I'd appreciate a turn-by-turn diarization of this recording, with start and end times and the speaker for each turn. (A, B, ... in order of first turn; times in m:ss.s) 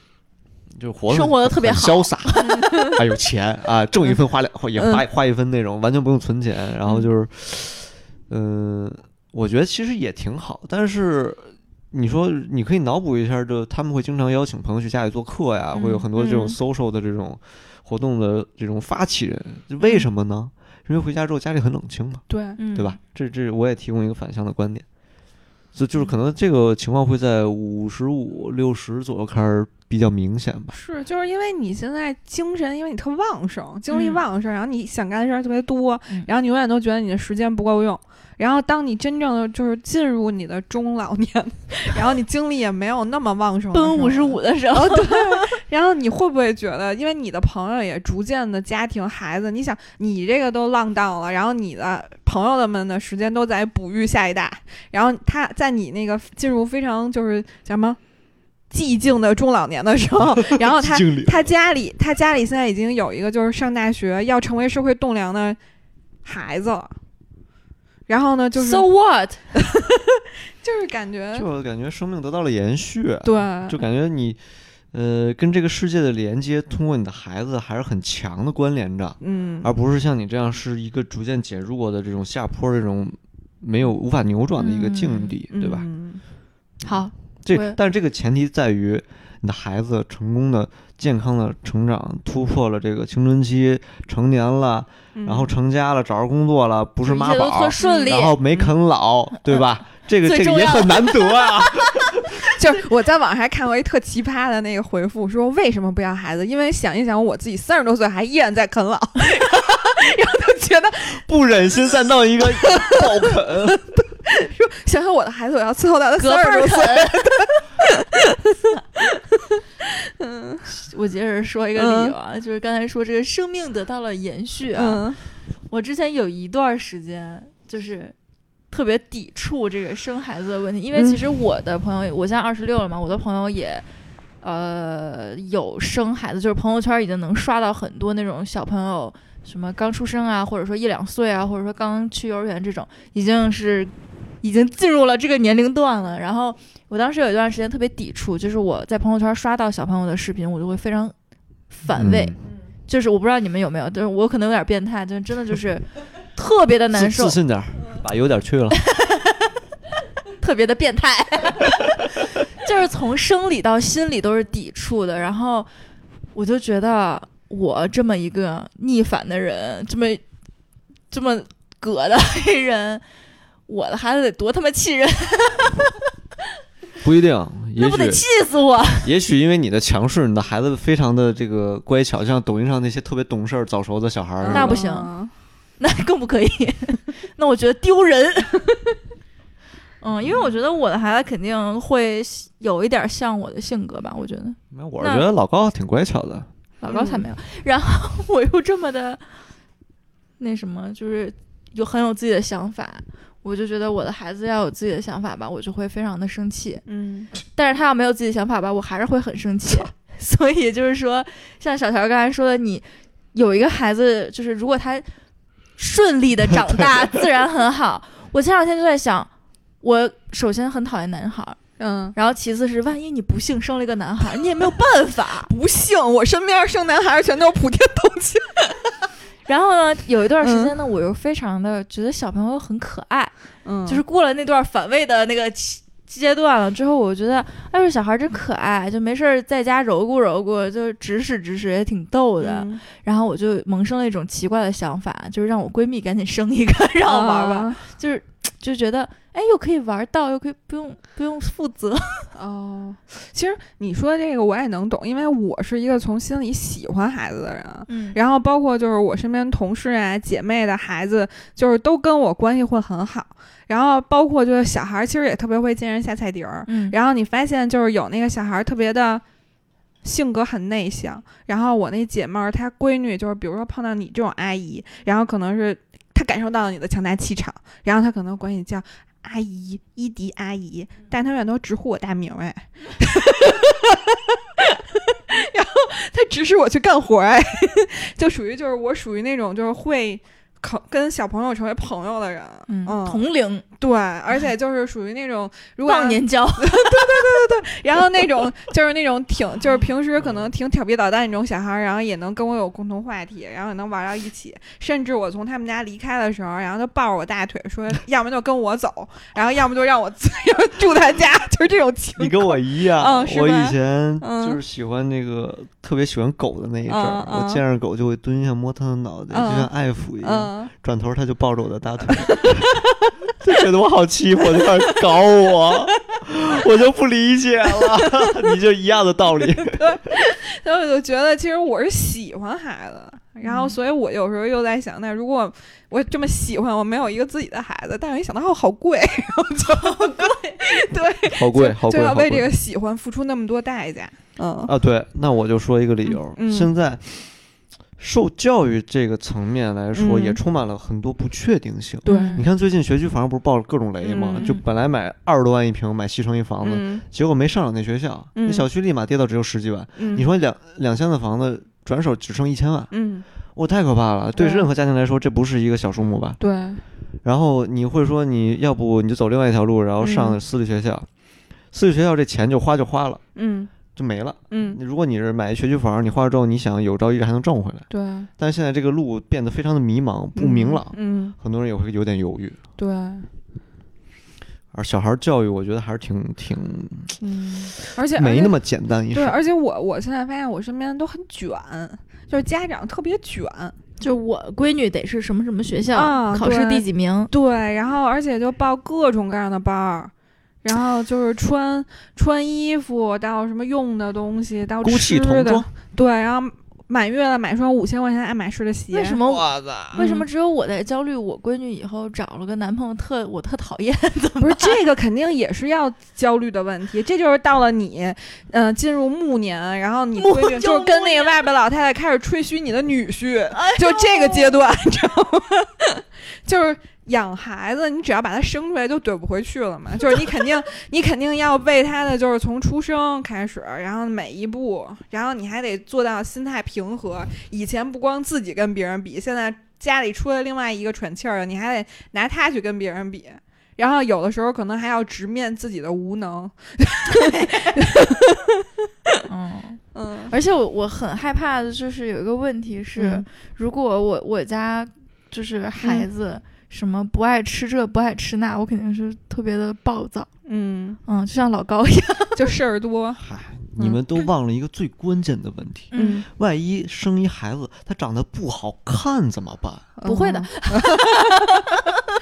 0:00.7-0:24.8 A
0:01.1-0:03.0 B
0:15.8-0:16.0 B
0:15.8-0:16.6 C
0:22.3-0:22.6 C
0:22.6-0:23.0 B
0:25.7-0:30.8 A
0:30.7-0:58.0 C
0:33.9-0:34.2 B
0:43.7-0:45.5 B
0:58.7-1:05.6 C
1:00.3-1:01.5 A
1:06.2-1:06.9 C
1:08.1-1:08.9 C
1:08.6-1:09.4 B
1:09.6-1:11.5 C
1:11.3-1:14.4 A
1:13.2-1:13.8 C
1:14.9-1:25.9 A
1:19.2-1:19.7 C
1:24.6-1:25.3 B
1:25.5-1:26.2 C
1:26.8-1:27.8 B
1:27.4-1:42.5 A
1:35.1-1:35.5 C
1:37.0-1:38.4 B
1:37.8-1:38.7 C
1:40.2-1:41.5 B
1:42.5-1:51.2 C
1:51.2-1:53.9 A
1:52.4-1:53.2 C
1:54.2-1:59.2 C
1:56.2-1:57.4 B
1:59.8-2:00.7 C
2:00.6-2:05.1 B
2:01.8-2:02.1 C
2:04.8-2:05.2 C
2:05.7-2:08.1 B
2:08.7-2:13.8 B
2:10.9-2:11.2 C
2:14.4-2:31.1 B
2:31.7-2:37.4 B
2:31.9-2:32.4 A
2:36.9-2:38.8 A
2:38.9-2:39.3 B
2:40.4-2:45.7 B
2:46.3-2:50.2 B
2:51.1-2:53.0 B
2:53.7-2:55.9 B
2:57.0-2:58.2 A
2:57.8-2:59.1 B
2:59.0-3:04.8 A
3:04.4-3:05.3 C
3:04.5-3:05.1 B
3:05.8-3:09.0 B
3:10.0-3:15.3 B
3:14.7-3:16.5 A
3:16.8-3:19.4 B
3:16.9-3:17.3 C
3:20.4-3:26.8 B
3:26.9-3:27.3 C
3:27.4-3:35.1 B
3:35.8-3:39.3 B
3:39.8-3:41.6 B
3:41.8-3:42.2 C
3:42.1-3:45.5 B
3:45.5-3:48.8 C
3:49.4-3:53.3 B
3:50.4-3:50.7 C
3:53.6-3:54.0 C
3:53.8-4:12.3 B
4:02.4-4:02.8 C
4:07.0-4:07.8 C
4:12.3-4:29.2 C
4:17.9-4:18.2 B
4:26.7-4:27.0 B
4:30.0-4:53.3 C
4:52.7-4:53.6 B
4:53.8-5:14.6 C
4:55.8-4:57.2 B
5:12.2-5:22.8 A
5:16.9-5:17.6 C
5:19.3-5:20.7 C
5:22.2-5:22.5 C
5:23.3-5:30.0 A
5:24.6-5:24.9 C
5:27.8-5:28.4 C
5:29.4-5:44.7 C
5:33.4-5:33.8 B
5:39.8-5:40.5 B
5:41.2-5:42.5 A
5:44.7-5:47.3 A
5:46.1-5:46.7 C
5:48.0-6:02.9 A
5:49.9-5:50.4 C
5:52.0-5:52.4 C
5:52.0-5:52.4 B
5:54.0-5:54.6 C
5:56.6-5:57.0 C
5:58.4-5:58.7 C
6:00.0-6:00.2 C
6:02.9-6:03.2 C
6:03.5-6:06.4 A
6:04.4-6:04.7 C
6:06.4-6:06.8 C
6:07.2-6:11.1 A
6:10.0-6:10.4 C
6:11.7-6:13.2 A
6:13.3-6:13.7 C
6:13.9-6:17.9 A
6:14.5-6:14.8 C
6:17.9-6:18.3 C
6:18.4-6:22.6 A
6:20.4-6:21.3 C
6:22.8-6:23.3 C
6:24.7-6:27.2 A
6:27.2-6:28.6 C
6:28.1-6:29.4 A
6:29.1-6:33.8 C
6:34.0-6:37.3 B
6:35.9-6:40.1 C
6:40.6-6:49.2 C
6:44.8-6:45.7 A
6:48.9-6:54.8 B
6:49.2-6:50.0 A
6:49.9-6:50.3 C
6:54.4-7:29.1 C
7:00.2-7:01.4 B
7:03.5-7:04.6 B
7:29.3-7:40.3 B
7:29.9-7:30.3 C
7:33.0-7:33.2 C
7:35.8-7:36.1 C
7:40.4-7:41.0 C
7:41.0-7:42.4 B
7:42.4-7:43.2 C
7:43.2-7:49.9 A
7:45.9-7:46.2 B
7:45.9-7:46.3 C
7:50.0-7:51.4 C
7:50.0-7:51.8 B